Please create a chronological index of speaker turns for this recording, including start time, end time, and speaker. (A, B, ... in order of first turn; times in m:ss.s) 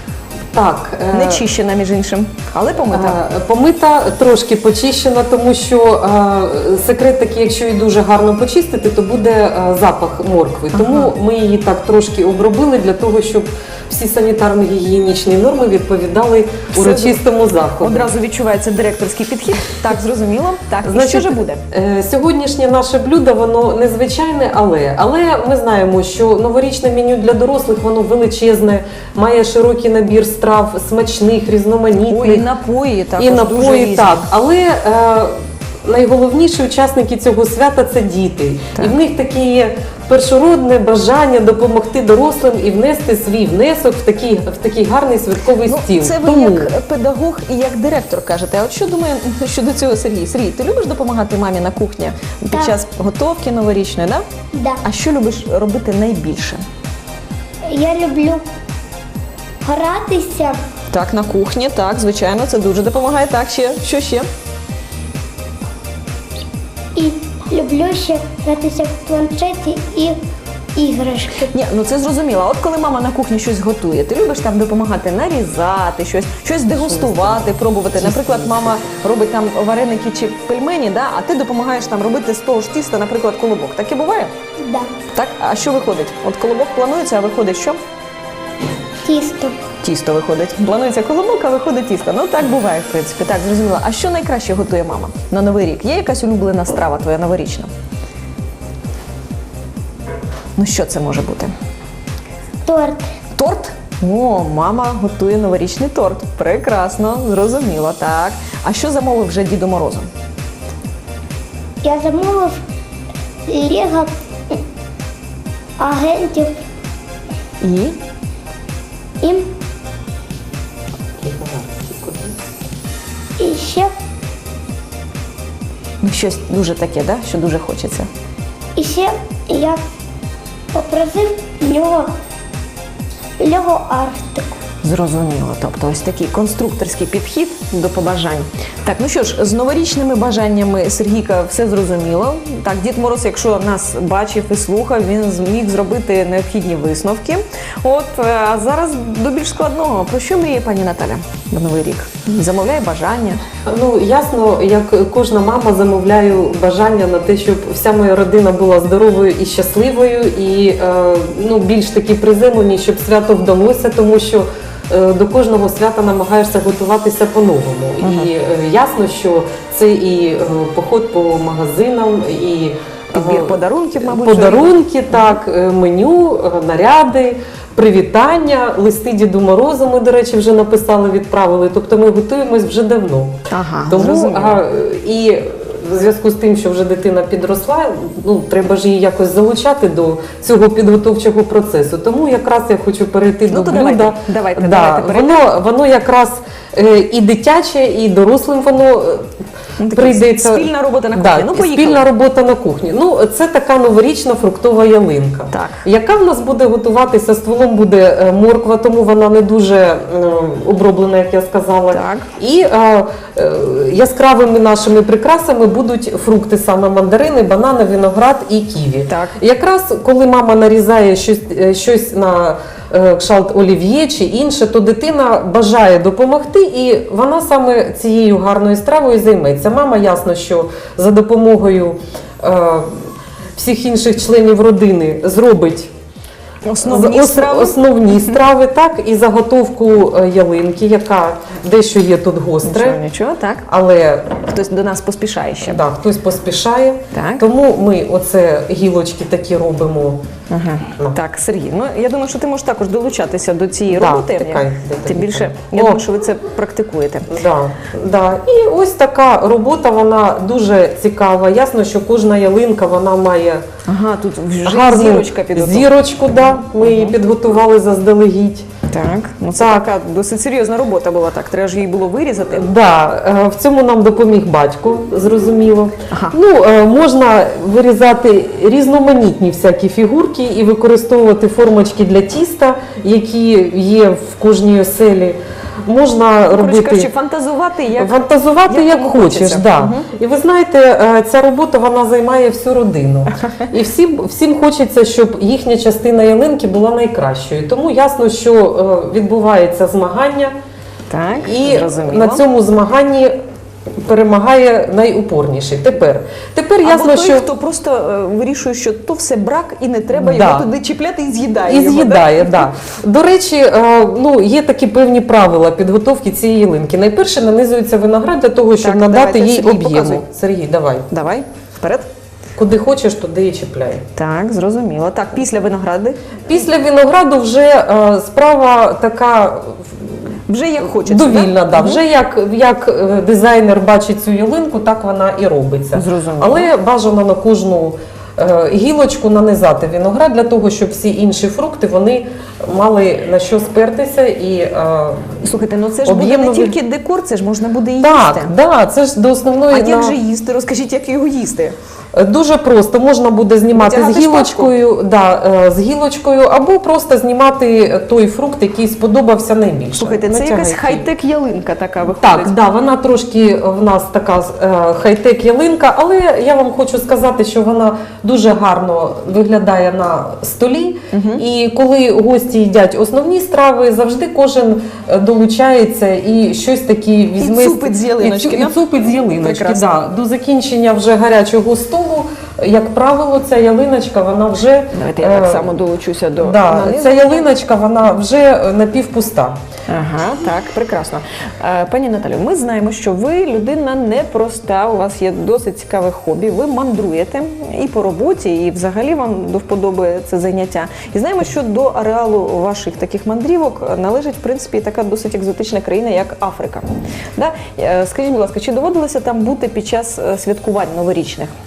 0:00.5-0:01.5 A
0:01.1-0:03.2 B
0:02.9-0:18.1 A
0:10.7-0:11.1 B
0:16.7-0:17.2 B
0:17.8-0:21.6 B
0:20.8-0:32.5 A
0:32.1-0:34.3 B
0:33.2-0:35.3 A
0:35.9-0:46.7 A
0:45.6-0:54.2 B
0:54.5-0:54.8 C
0:54.8-0:56.6 B
0:57.7-0:58.5 C
0:59.6-1:00.6 C
1:00.9-1:04.3 B
1:07.0-1:10.2 C
1:10.8-1:11.5 C
1:11.4-1:24.3 B
1:16.8-1:18.8 A
1:24.6-1:24.9 C
1:25.1-1:27.8 B
1:29.0-1:29.6 C
1:29.8-1:37.7 B
1:40.6-1:41.5 B
1:42.6-1:43.1 C
1:43.4-1:50.1 B
1:51.8-1:52.6 C
1:53.5-1:54.6 C
1:55.8-1:56.6 C
1:57.6-1:58.0 B
1:59.2-1:59.5 C
2:01.2-2:02.3 A
2:03.4-2:03.9 C
2:06.0-2:08.1 B
2:08.8-2:09.8 C
2:10.7-2:12.1 C
2:13.4-2:14.6 C
2:14.8-2:33.4 B
2:33.7-3:03.4 A
2:48.0-2:48.3 B
2:53.1-2:54.8 B
3:03.5-3:04.6 B
3:03.9-3:19.3 A
3:13.5-3:15.5 B
3:19.8-3:22.1 B
3:19.9-3:52.9 A
3:25.5-3:25.8 B
3:31.9-3:32.3 B
3:39.1-3:39.4 B
3:53.6-3:55.9 A
3:56.7-3:58.4 B
3:56.8-4:03.0 A
4:02.6-4:03.7 B
4:03.7-4:04.3 A
4:04.5-4:05.8 B
4:05.6-4:10.2 A
4:07.1-4:07.5 B
4:10.5-4:17.4 B
4:13.9-4:16.0 A
4:17.3-4:23.6 A
4:23.9-4:27.2 B
4:24.6-4:28.7 A
4:28.9-4:32.7 B
4:29.5-4:29.9 A
4:32.5-4:47.1 A
4:36.1-4:36.4 B
4:46.5-4:50.1 B
4:48.0-5:00.5 A
5:01.1-5:02.5 B
5:01.4-5:03.4 A
5:04.0-5:07.5 A
5:06.8-5:12.7 B
5:10.2-5:10.7 A
5:11.6-5:21.1 A
5:18.8-5:20.3 B
5:21.1-5:22.1 B
5:22.6-5:24.0 A
5:24.2-5:26.3 B
5:26.5-5:29.8 A
5:30.5-5:32.0 B
5:31.0-5:45.2 A
5:35.9-5:36.7 B
5:45.4-5:48.5 B
5:46.0-5:46.8 A
5:48.0-5:50.2 A
5:49.7-5:51.8 B
5:52.1-6:01.1 A
5:53.7-5:54.8 B
6:00.0-6:02.6 B
6:02.2-6:25.8 A
6:11.1-6:11.4 B
6:17.4-6:18.8 B
6:19.4-6:20.0 B
6:24.9-6:27.5 B
6:26.4-6:29.6 A
6:29.9-6:51.5 B